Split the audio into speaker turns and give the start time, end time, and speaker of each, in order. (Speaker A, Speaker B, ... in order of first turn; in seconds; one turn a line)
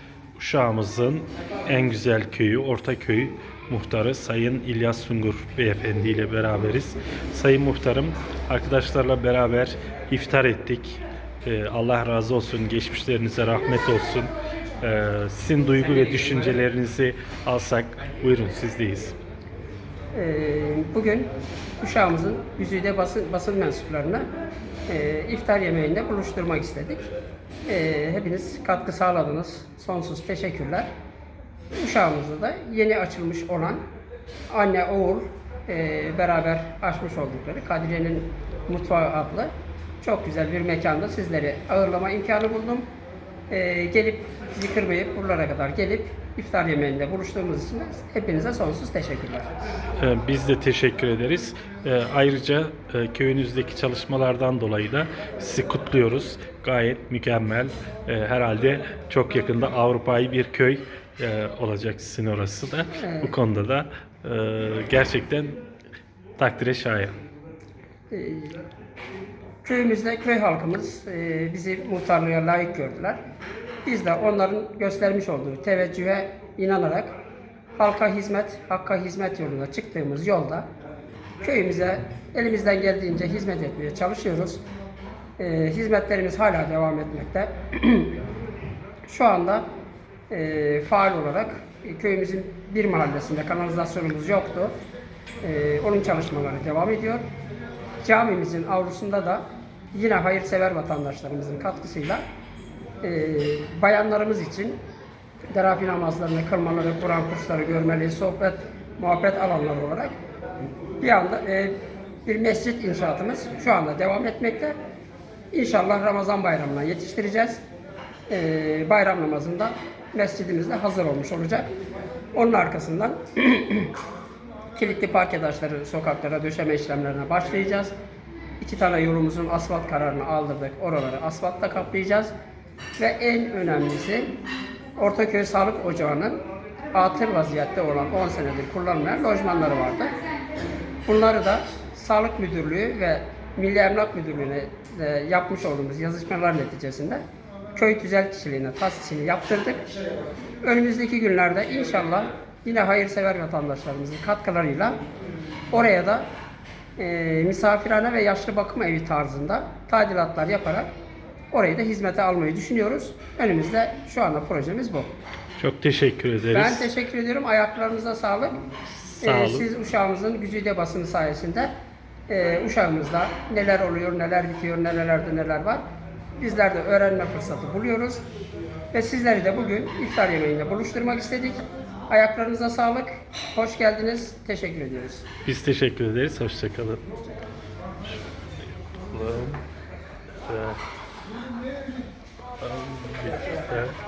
Speaker A: 0.4-19.2
Speaker B: 20.1-21.3
Speaker B: 21.8-24.3
Speaker B: 24.9-27.1
Speaker B: 27.7-30.9
Speaker B: 31.8-33.8
Speaker B: 34.5-42.9
Speaker B: 43.5-49.5
Speaker A: 50.0-65.6
Speaker B: 63.0-63.4
Speaker A: 66.4-67.1
Speaker B: 68.1-68.6
Speaker B: 69.6-73.2
Speaker B: 73.8-77.1
Speaker B: 77.8-80.7
Speaker B: 81.4-84.6
Speaker B: 85.4-88.2
Speaker B: 89.1-89.6
Speaker B: 90.3-94.7
Speaker B: 95.4-97.2
Speaker B: 98.0-102.2
Speaker B: 103.0-104.8
Speaker B: 105.5-110.1
Speaker B: 111.0-111.7
Speaker B: 112.3-114.8
Speaker B: 115.5-117.6
Speaker B: 118.3-121.7
Speaker B: 122.3-123.9
Speaker B: 124.8-127.9
Speaker B: 128.6-132.3
Speaker B: 133.0-134.3
Speaker B: 135.0-136.4
Speaker B: 136.9-140.2
Speaker B: 141.1-147.2
Speaker B: 147.8-149.8
Speaker B: 150.6-155.0
Speaker B: 155.7-156.3
Speaker B: 157.0-160.9
Speaker B: 161.5-165.1
Speaker A: 165.6-166.9
Speaker B: 166.5-168.6
Speaker A: 169.0-169.7
Speaker B: 169.2-171.7
Speaker B: 172.3-175.8
Speaker B: 176.4-178.2
Speaker B: 178.9-185.2
Speaker A: 185.4-187.0
Speaker A: 188.1-189.6
Speaker A: 190.4-190.8
Speaker A: 192.6-193.9